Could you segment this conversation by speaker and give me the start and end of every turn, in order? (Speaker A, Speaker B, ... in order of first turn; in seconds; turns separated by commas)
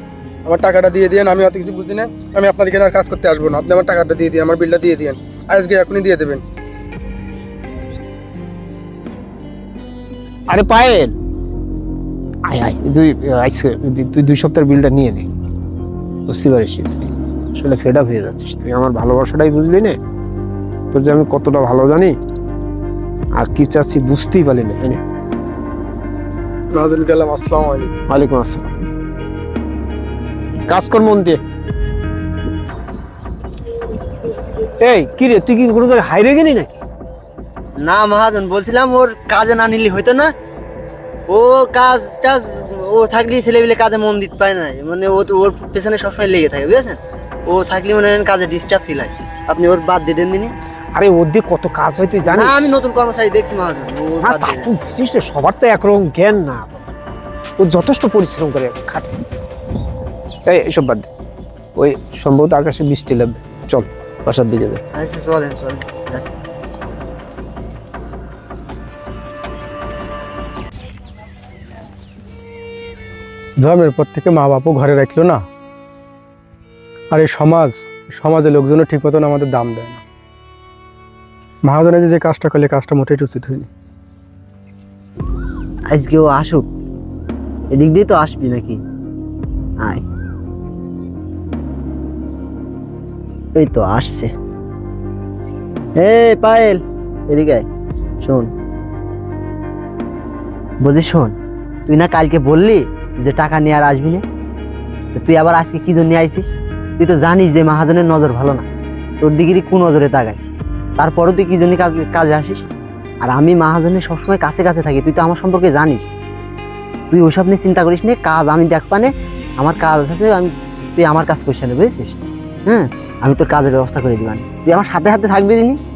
Speaker A: 0.4-6.4, Speaker B: 10.5-11.1, Speaker B: 12.5-15.3, Speaker B: 16.3-17.0, Speaker B: 17.5-20.0, Speaker B: 20.9-22.2, Speaker B: 23.4-25.0, Speaker A: 26.7-27.9, Speaker B: 28.1-28.7, Speaker B: 30.7-31.4, Speaker B: 34.8-36.8, Speaker C: 37.8-40.3, Speaker C: 41.3-50.5, Speaker B: 50.9-52.7, Speaker C: 52.2-54.7, Speaker B: 54.2-56.9, Speaker B: 57.6-59.2, Speaker B: 60.5-61.1, Speaker B: 61.7-64.8, Speaker C: 64.9-66.2, Speaker A: 73.6-75.4, Speaker A: 77.1-80.0, Speaker A: 81.7-83.7, Speaker C: 85.9-86.7, Speaker C: 87.7-88.8, Speaker C: 93.5-94.3, Speaker C: 96.0-97.6, Speaker C: 98.2-98.5, Speaker C: 100.8-101.3, Speaker C: 101.9-104.2, Speaker C: 105.1-108.6, Speaker C: 109.2-110.4, Speaker C: 111.0-112.6, Speaker C: 113.2-116.0, Speaker C: 117.1-125.8